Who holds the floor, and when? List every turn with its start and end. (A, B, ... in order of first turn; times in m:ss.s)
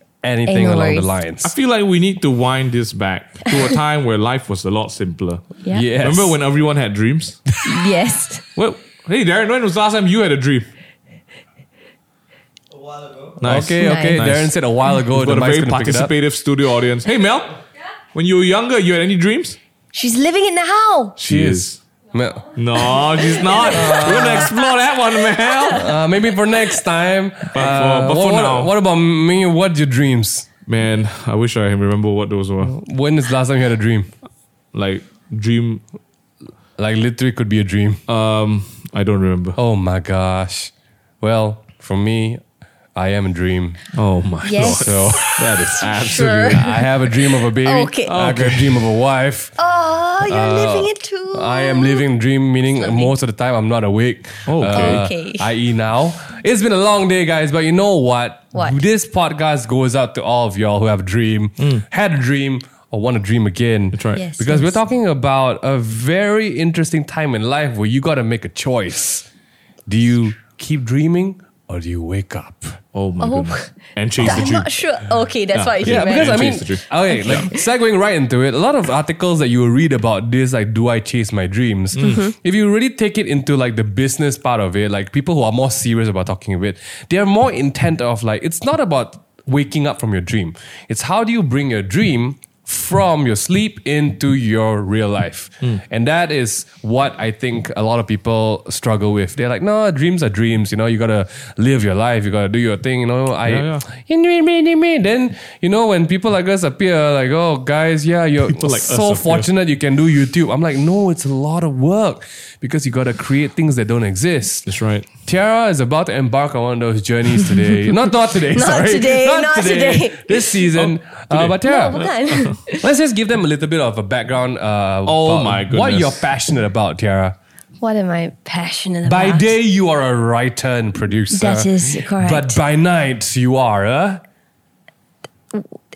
0:00.2-0:01.5 A
0:00.5-0:01.1 B
0:01.4-0:07.4 C
0:05.7-0:06.4 A
0:07.6-0:08.4 B
0:08.6-0:10.7 C
0:13.4-0:14.6 C
0:13.4-0:16.1 A
0:13.8-0:14.2 B
0:15.1-0:17.6 C
0:18.1-0:19.6 C
0:19.9-0:21.2 B
0:21.2-0:21.8 C
0:21.2-0:22.5 A
0:22.6-0:25.9 C
0:23.2-0:24.5 B
0:23.6-0:24.5 A
0:25.7-0:30.5 A
0:27.5-0:28.7 C
0:30.7-0:32.8 C
0:32.6-0:34.1 A
0:34.7-0:35.8 C
0:36.8-0:38.0 A
0:38.1-0:39.6 C
0:39.6-0:42.4 A
0:43.0-0:43.8 A
0:43.9-0:46.9 C
0:44.4-0:46.6 B
0:44.6-0:49.5 A
0:47.6-0:48.1 B
0:48.1-0:48.9 C
0:49.6-0:52.1 B
0:50.2-1:09.3 A
0:52.8-0:53.1 B
0:54.5-0:55.1 C
0:54.6-0:55.5 B
0:58.5-0:58.8 B
1:03.9-1:04.2 C
1:04.2-1:04.8 B
1:09.9-1:12.8 A
1:12.9-1:14.7 C
1:13.2-1:13.7 B
1:14.2-1:17.5 B
1:15.5-1:17.5 C
1:15.8-1:54.7 A
1:22.0-1:22.3 B
1:22.0-1:22.2 C
1:43.4-1:43.8 C
1:48.5-1:49.5 C
1:54.7-1:55.1 C
1:55.2-2:02.1 A
1:58.3-2:00.7 B
2:00.7-2:02.6 C
2:01.6-2:02.9 B
2:02.7-2:07.4 A
2:05.1-2:06.3 C
2:07.8-2:09.5 B
2:09.0-2:14.2 A
2:11.3-2:12.6 B